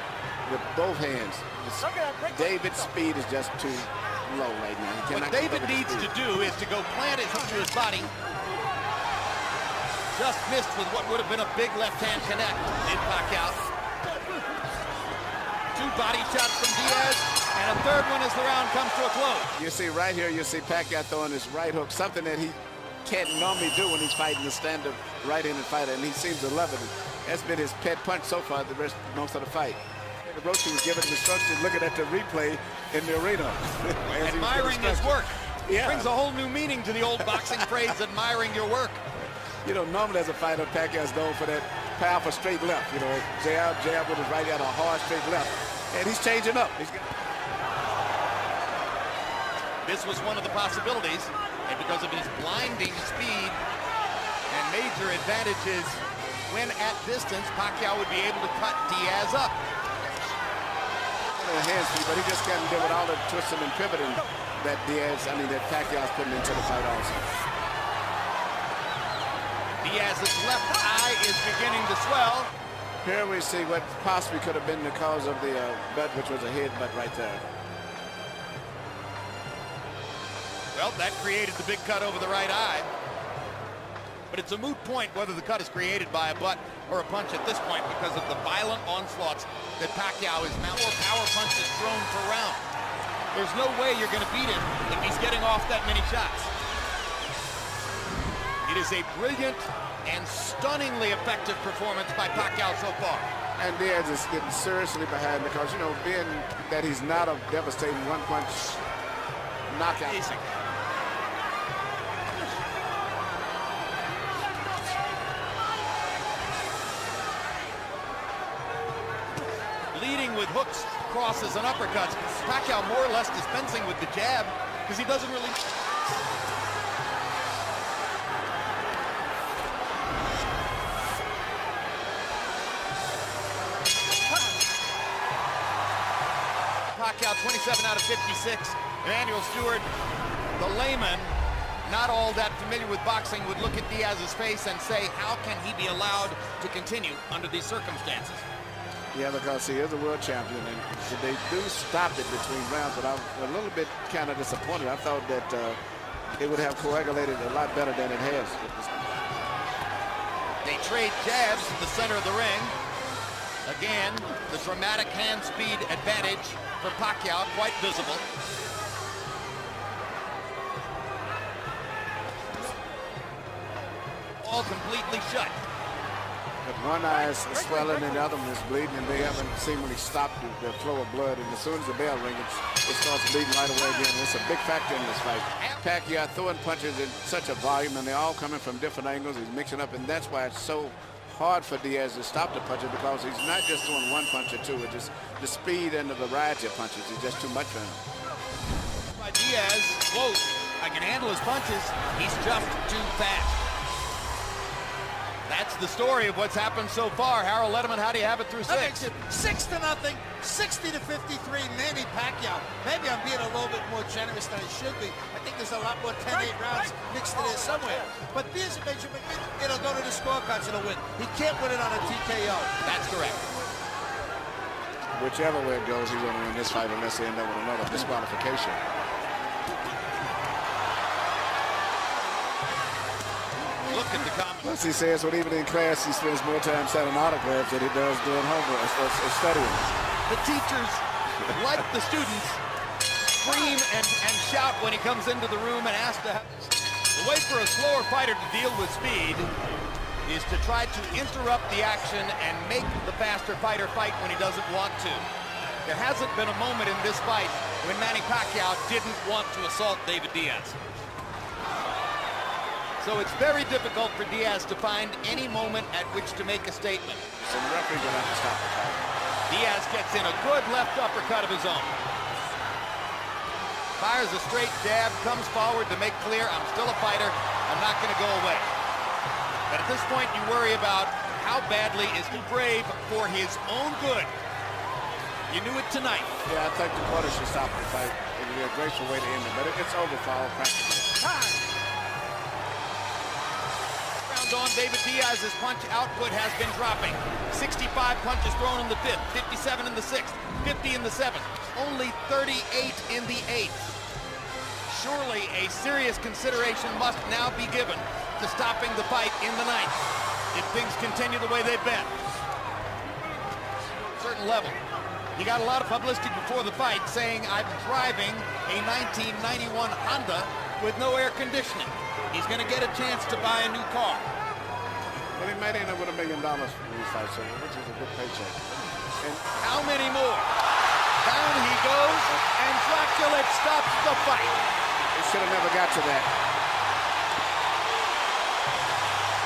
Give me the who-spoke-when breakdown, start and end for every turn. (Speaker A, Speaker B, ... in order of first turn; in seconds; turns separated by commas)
Speaker A: 0.5-6.2, Speaker B: 5.1-8.1, Speaker B: 10.1-13.6, Speaker B: 15.7-19.5, Speaker A: 19.6-35.1, Speaker B: 34.1-39.0, Speaker A: 35.7-36.1, Speaker A: 37.2-37.9, Speaker A: 39.6-47.1, Speaker B: 49.8-53.6, Speaker B: 54.5-59.6, Speaker A: 61.3-67.3, Speaker B: 69.8-72.5, Speaker A: 73.0-77.4, Speaker B: 80.7-82.9, Speaker B: 84.3-92.7, Speaker B: 93.3-96.5, Speaker B: 98.6-103.3, Speaker A: 103.6-108.8, Speaker A: 109.7-110.3, Speaker B: 110.0-110.5, Speaker B: 119.9-125.6, Speaker B: 136.9-139.9, Speaker B: 140.6-148.4, Speaker A: 149.1-155.8, Speaker A: 156.4-159.1, Speaker B: 160.6-162.8, Speaker B: 163.7-168.2, Speaker B: 174.4-175.6, Speaker A: 176.6-198.0, Speaker B: 199.1-203.6, Speaker B: 205.5-209.1, Speaker C: 208.7-222.8, Speaker B: 222.8-223.4, Speaker A: 225.2-228.8, Speaker B: 233.9-234.8, Speaker A: 234.6-239.9, Speaker B: 240.2-242.6, Speaker B: 243.4-249.5, Speaker B: 250.2-255.2, Speaker B: 255.8-260.8, Speaker B: 263.0-267.2, Speaker A: 267.3-269.0, Speaker B: 269.5-271.9, Speaker B: 274.0-278.7, Speaker B: 279.7-284.3, Speaker B: 285.5-286.4, Speaker A: 286.4-291.2, Speaker B: 294.2-304.0, Speaker B: 304.9-310.0, Speaker B: 310.5-312.1, Speaker B: 314.2-314.8, Speaker B: 315.4-324.2, Speaker A: 325.4-328.7, Speaker A: 329.2-329.4, Speaker B: 329.6-330.5, Speaker B: 331.2-334.6, Speaker A: 335.1-336.3